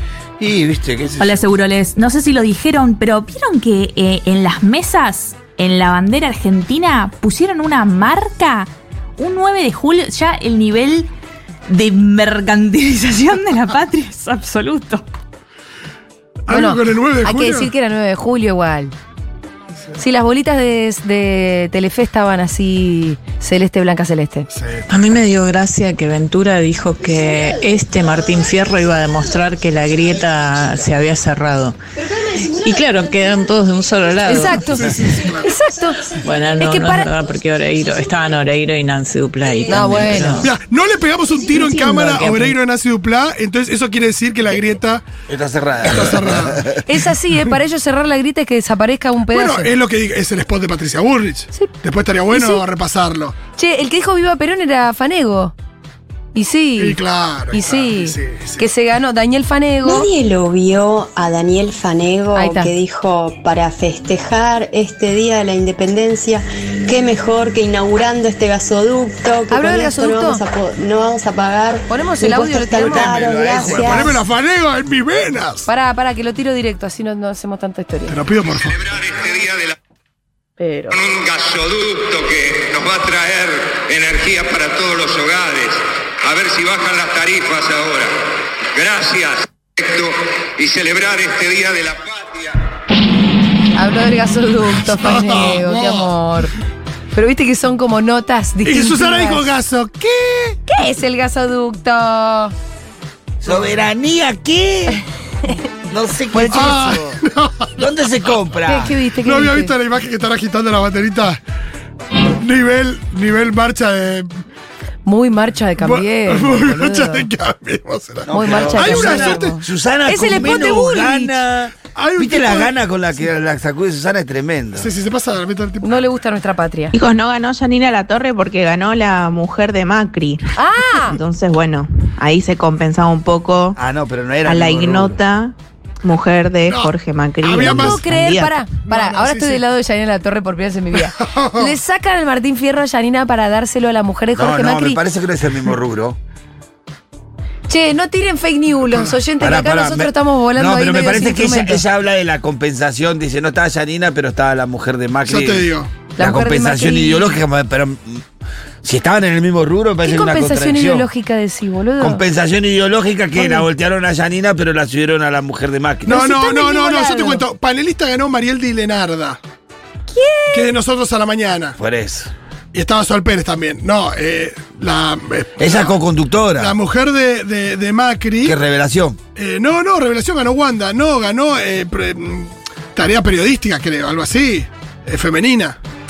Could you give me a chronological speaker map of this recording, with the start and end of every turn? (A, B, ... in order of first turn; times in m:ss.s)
0:00.4-0:01.4 A
0:01.2-0:11.1 B
0:11.7-0:15.0 B
0:16.5-0:17.7 C
0:16.5-0:18.9 D
0:20.0-0:24.5 D
0:24.6-0:24.8 C
0:24.9-0:31.8 E
0:32.5-0:34.7 E
0:34.3-0:36.1 D
0:34.8-0:35.5 C
0:36.2-0:40.4 E
0:36.6-0:37.1 D
0:39.7-0:40.5 D
0:40.4-0:45.0 C
0:45.3-0:46.8 A
0:45.8-0:46.8 C
0:46.8-0:49.7 D
0:49.3-0:53.4 C
0:52.3-0:52.6 D
0:53.6-0:55.5 D
0:56.4-0:57.0 D
0:56.8-0:58.6 C
0:57.5-1:00.1 D
0:59.8-1:14.2 F
1:02.4-1:02.7 D
1:09.5-1:10.4 D
1:11.9-1:13.3 D
1:12.8-1:14.1 A
1:13.6-1:15.7 C
1:15.7-1:18.2 D
1:18.1-1:18.8 C
1:18.6-1:19.8 G
1:20.6-1:20.9 D
1:20.9-1:32.6 G
1:33.8-1:36.6 D
1:34.9-1:36.1 C
1:37.1-1:39.5 D
1:38.6-1:40.6 C
1:40.7-1:42.5 D
1:43.4-1:45.0 A
1:45.9-1:47.2 A
1:46.3-1:46.8 D
1:46.5-1:47.8 C
1:47.8-1:49.0 A
1:48.7-1:49.7 D
1:49.2-1:51.4 C
1:52.4-1:54.3 C
1:55.0-1:57.2 D
1:55.8-1:59.6 C
1:58.2-2:04.9 A
1:58.3-2:01.4 D
2:00.4-2:00.7 C
2:01.9-2:02.7 C
2:04.8-2:06.0 C
2:05.8-2:06.9 D
2:06.9-2:13.8 H
2:10.6-2:11.2 D
2:13.8-2:15.2 A
2:14.4-2:18.6 H
2:16.7-2:18.1 C
2:17.6-2:25.0 D
2:18.8-2:19.6 C
2:21.0-2:21.7 C
2:24.4-2:26.2 A
2:27.7-2:31.8 D
2:29.4-2:38.2 A
2:35.3-2:35.9 C
2:36.2-2:37.4 D
2:38.8-2:41.1 A
2:40.0-2:42.2 D
2:42.0-2:46.2 A
2:43.4-2:43.7 D
2:46.1-2:49.4 C
2:46.1-2:47.4 D
2:50.1-2:50.7 D
2:50.5-2:51.8 C
2:51.8-2:52.3 A
2:52.7-2:56.0 C
2:55.6-2:56.8 A
2:56.6-2:58.6 C
2:58.4-2:59.2 A
2:59.4-3:05.8 C